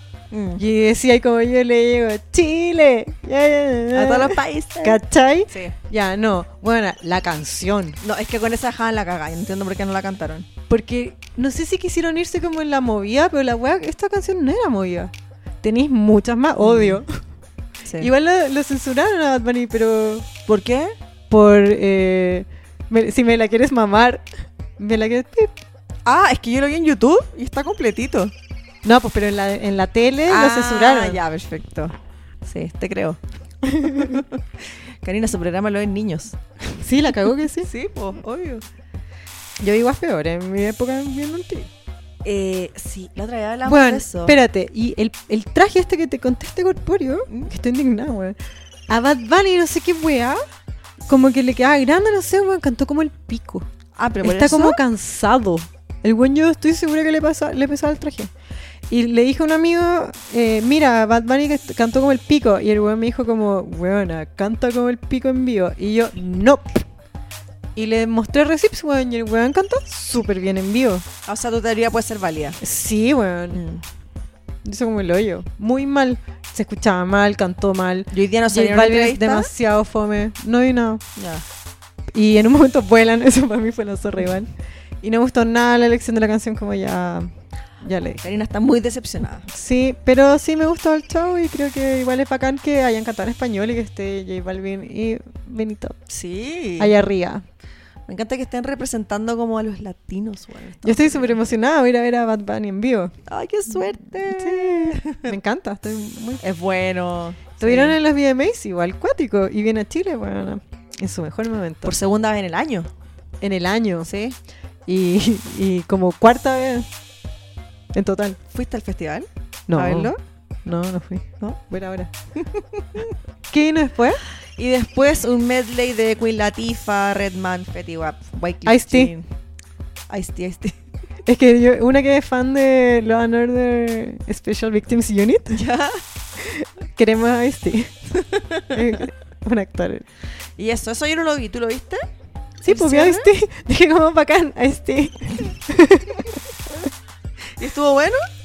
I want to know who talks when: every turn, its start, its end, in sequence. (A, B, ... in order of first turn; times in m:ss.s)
0:00.3-0:00.6 A
0:00.6-0:08.0 B
0:03.9-0:05.7 A
0:08.0-0:10.5 A
0:10.7-0:15.1 B
0:15.6-0:17.1 B
0:16.6-0:17.0 A
0:18.0-0:20.3 B
0:20.4-0:20.9 A
0:21.3-0:24.2 B
0:24.8-0:25.5 B
0:26.0-0:28.3 A
0:28.8-0:31.2 B
0:30.3-0:33.2 A
0:33.7-0:34.2 B
0:33.8-0:34.4 A
0:35.0-0:36.4 A
0:36.8-0:37.7 B
0:37.6-0:38.6 A
0:39.6-0:41.7 B
0:42.2-0:44.4 A
0:43.6-0:48.4 B
0:48.9-0:50.4 B
0:51.1-0:53.7 B
0:54.0-0:54.8 A
0:54.2-0:58.3 B
0:58.9-1:06.8 B
1:07.8-1:11.0 B
1:11.2-1:12.6 A
1:12.6-1:13.6 B
1:13.5-1:13.8 A
1:14.6-1:21.0 B
1:18.1-1:19.5 A
1:21.2-1:21.4 A
1:22.1-1:24.5 B
1:25.0-1:27.3 B
1:27.8-1:28.2 B
1:28.2-1:29.5 A
1:29.5-1:36.0 B
1:36.1-1:36.9 A
1:36.8-1:37.4 B
1:38.1-1:41.4 A
1:40.8-1:43.1 B
1:43.3-1:45.3 A
1:44.3-1:46.4 B
1:46.4-1:48.0 A
1:47.6-1:52.0 B
1:51.8-1:52.9 A
1:53.4-1:54.1 B
1:54.0-1:54.4 A
1:54.8-1:56.9 B
1:57.9-1:58.4 B
1:58.5-2:00.1 A
1:59.7-2:02.1 B
2:02.4-2:03.1 A
2:03.5-2:04.2 B
2:04.6-2:09.2 A
2:08.6-2:09.1 B
2:10.1-2:10.8 A
2:11.2-2:15.6 B
2:15.5-2:16.0 A
2:16.4-2:17.9 B
2:18.3-2:18.7 A
2:18.7-2:20.0 B
2:20.6-2:22.0 A
2:22.6-2:26.3 B
2:22.6-2:23.3 A
2:27.6-2:28.2 A